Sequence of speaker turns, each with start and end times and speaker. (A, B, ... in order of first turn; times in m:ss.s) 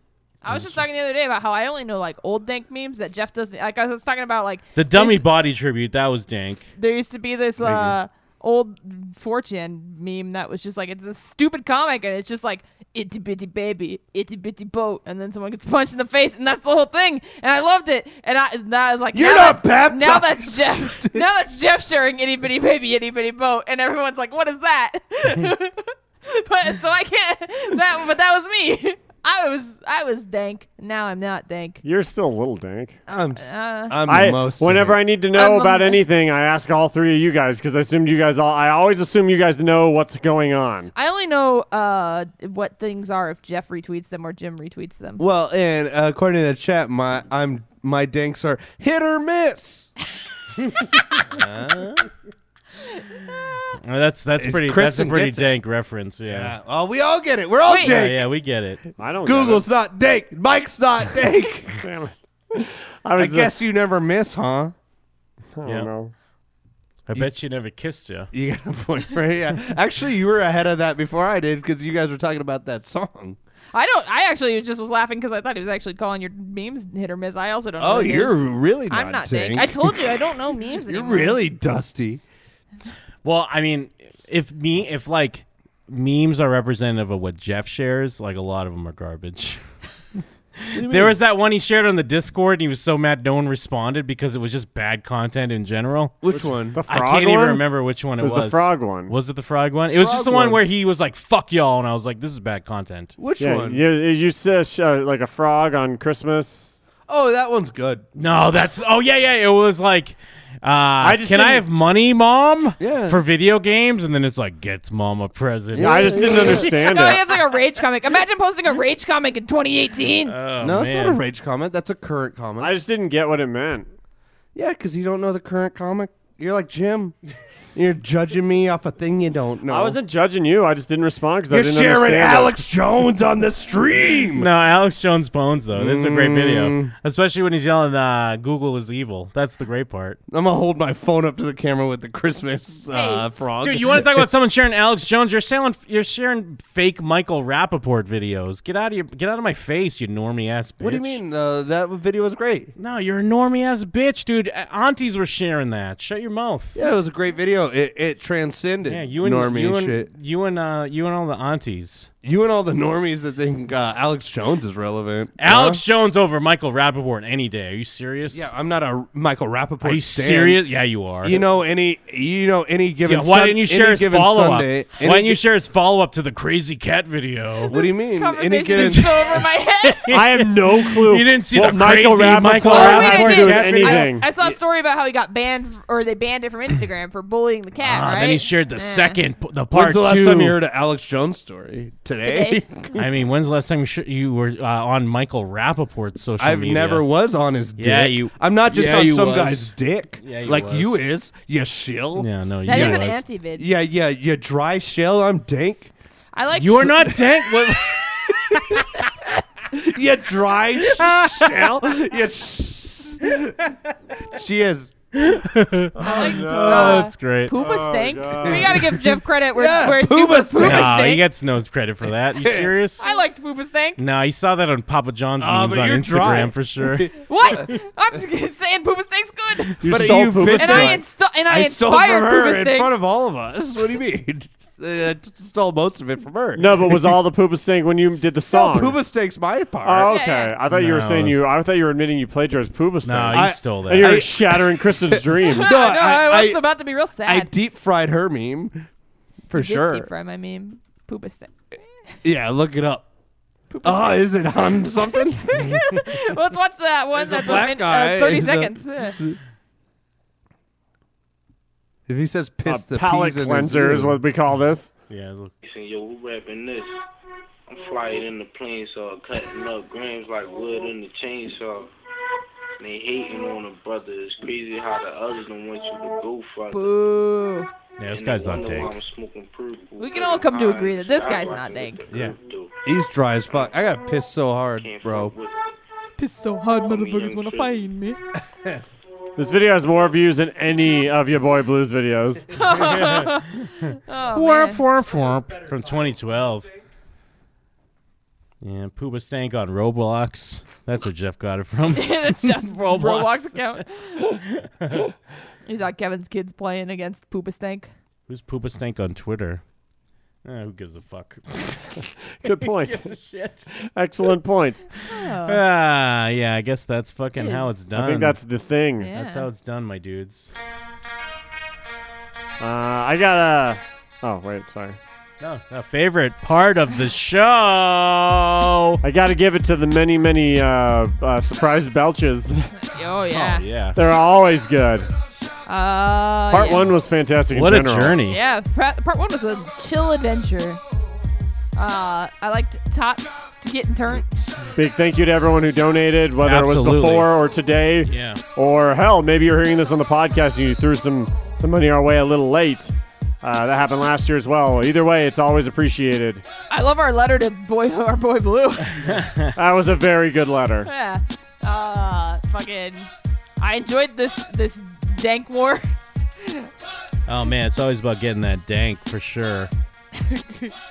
0:00.4-0:05.3 A
0:04.8-0:06.7 B
0:06.8-0:31.8 A
0:07.6-0:08.0 C
0:19.1-0:21.2 C
0:31.8-0:33.0 D
0:33.1-0:35.0 C
0:33.4-0:34.0 A
0:34.1-0:40.9 D
0:35.3-0:36.0 A
0:41.0-0:45.2 A
0:45.2-0:49.9 C
0:51.2-0:52.1 C
0:53.8-0:56.6 B
0:54.4-0:55.5 C
0:56.3-0:58.3 C
0:57.6-0:58.0 A
0:57.8-0:58.8 B
0:59.0-0:59.6 D
0:59.2-1:01.8 C
1:01.8-1:03.5 D
1:03.2-1:04.7 C
1:05.6-1:06.1 D
1:05.6-1:05.9 B
1:07.1-1:08.3 B
1:08.3-1:13.4 C
1:13.7-1:21.4 A
1:17.8-1:20.2 C
1:20.9-1:22.2 C
1:23.2-1:29.6 B
1:30.6-1:36.2 B
1:30.8-1:31.2 C
1:36.2-1:36.8 C
1:36.3-1:37.6 D
1:36.9-1:43.1 B
1:38.2-1:39.2 D
1:40.0-1:40.6 C
1:43.2-1:43.8 C
1:43.4-1:46.8 D
1:47.1-1:48.0 C
1:48.2-1:56.6 B
1:51.0-1:51.7 D
1:52.8-1:53.2 C
1:55.8-1:56.8 C
1:55.8-1:57.2 D
1:56.8-2:00.4 A
2:00.3-2:01.2 B
2:00.6-2:02.7 C
2:02.6-2:03.9 D
2:04.6-2:07.2 C
2:07.8-2:10.0 C
2:09.7-2:12.6 D
2:11.5-2:14.5 C
2:14.4-2:20.2 B
2:15.8-2:16.9 C
2:20.3-2:24.3 C
2:22.9-2:23.3 A
2:23.6-2:31.2 B
2:30.8-2:32.7 C
2:32.8-2:36.8 B
2:36.8-2:40.1 C
2:38.9-2:42.1 B
2:42.2-2:45.8 C
2:45.4-2:48.5 B
2:48.3-2:50.6 C
2:49.8-2:51.4 B
2:51.2-2:55.4 C
2:53.0-2:57.8 B
2:57.7-3:00.2 A
2:57.7-2:59.2 C
2:58.7-3:04.1 B
3:00.1-3:04.3 D
3:02.6-3:09.2 A
3:07.8-3:10.6 B
3:09.7-3:13.0 C
3:12.2-3:12.6 A
3:13.0-3:17.1 B
3:16.4-3:23.0 C
3:17.8-3:21.0 B
3:22.2-3:23.2 B
3:22.6-3:23.7 A
3:23.6-3:25.9 C
3:26.3-3:27.1 A
3:26.6-3:28.9 B
3:26.8-3:27.1 C
3:29.7-3:33.7 C
3:30.8-3:31.7 B
3:34.3-3:35.4 C
3:35.2-3:37.6 B
3:36.0-3:38.8 D
3:36.0-3:41.2 A
3:38.4-3:38.9 C
3:39.5-3:41.1 C
3:40.6-3:43.1 B
3:42.4-3:42.7 C
3:43.0-3:44.0 A
3:44.0-3:47.1 B
3:45.4-3:47.6 C
3:47.2-3:49.9 A
3:49.8-3:51.0 D
3:49.8-3:57.2 C
3:50.5-3:53.0 A
3:56.6-3:59.0 D
3:58.5-4:00.2 C
3:59.8-4:05.7 D
4:00.0-4:00.6 A
4:00.7-4:01.4 B
4:03.0-4:04.2 B
4:03.3-4:06.7 C
4:05.5-4:07.5 A
4:07.2-4:08.9 C
4:09.5-4:10.1 C
4:09.6-4:11.5 A
4:12.2-4:13.1 C
4:13.7-4:19.2 A
4:13.8-4:15.9 C
4:17.1-4:19.4 C
4:22.1-4:24.2 C
4:22.7-4:24.9 D
4:25.1-4:25.5 B
4:25.6-4:26.9 E
4:27.7-4:31.9 E
4:32.8-4:36.9 E
4:36.7-4:37.7 A
4:38.0-4:39.0 B
4:38.1-4:42.8 E
4:40.0-4:42.0 A
4:42.1-4:45.3 C
4:44.8-4:45.5 E
4:46.2-4:48.2 A
4:46.6-4:47.8 E
4:49.4-4:52.5 D
4:52.5-4:54.8 A
4:52.9-4:53.3 B
4:54.3-4:56.7 B
4:58.6-5:03.5 B
5:01.9-5:04.2 A
5:04.4-5:05.1 B
5:05.7-5:07.9 A
5:08.3-5:09.6 B
5:10.4-5:11.8 B
5:12.4-5:13.1 D
5:12.4-5:13.7 B
5:13.9-5:14.8 D
5:15.0-5:15.6 A
5:15.4-5:18.4 B
5:17.4-5:17.7 A
5:18.0-5:19.1 D
5:19.0-5:19.5 A
5:19.1-5:20.5 B
5:22.6-5:25.0 D
5:25.4-5:29.0 B
5:29.0-5:32.7 D
5:32.8-5:33.6 A
5:33.3-5:34.0 B
5:34.0-5:35.1 D
5:35.7-5:37.0 A
5:36.5-5:38.2 D
5:37.5-5:38.4 B
5:38.2-5:40.8 A
5:41.8-5:44.3 A
5:44.8-5:56.4 D
5:46.4-5:47.3 B
5:48.0-5:48.4 B
5:56.7-5:59.0 A
5:59.0-5:59.5 B
5:59.6-6:00.9 D
6:00.8-6:03.1 A
6:03.6-6:05.9 A
6:07.3-6:09.7 B
6:10.2-6:10.7 A